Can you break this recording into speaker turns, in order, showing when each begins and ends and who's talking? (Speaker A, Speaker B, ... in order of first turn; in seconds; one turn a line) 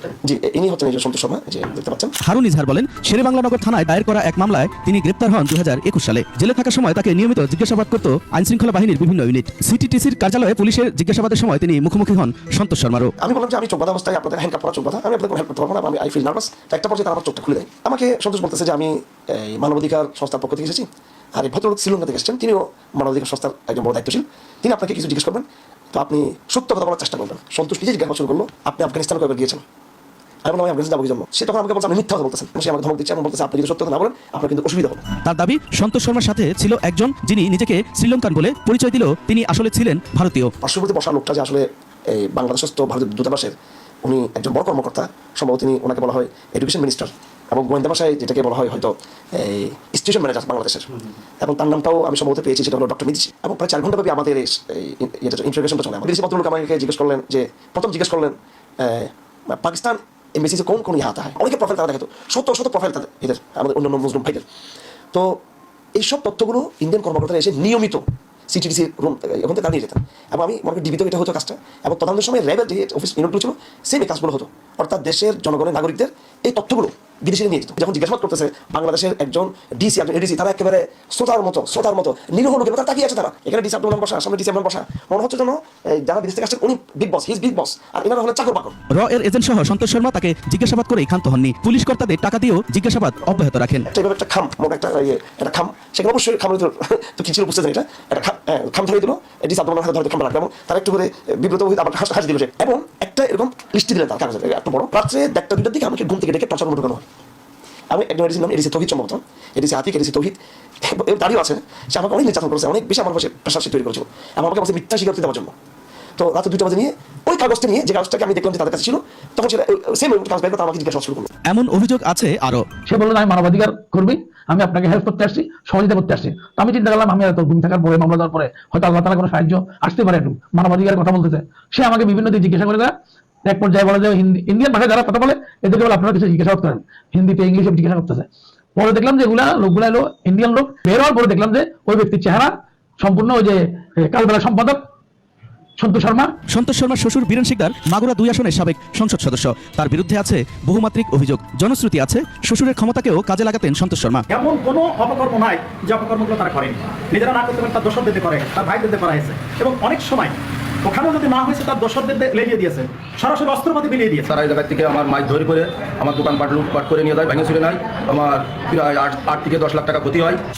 Speaker A: 0.2-2.1
Speaker B: 2.2-13.1
Speaker A: 13.2-29.6
Speaker A: 30.4-35.0
Speaker B: 35.2-40.5
Speaker A: 40.6-64.4
Speaker A: 65.1-65.4
Speaker A: 66.0-88.8
Speaker B: 88.9-93.9
Speaker A: 93.9-107.0
Speaker A: 107.9-115.5
Speaker A: 116.2-121.3
Speaker B: 121.5-122.7
Speaker C: 122.9-132.9
Speaker C: 133.4-144.8
Speaker C: 145.8-146.3
Speaker B: 146.5-154.3
Speaker D: 154.3-164.3
Speaker E: 164.2-170.4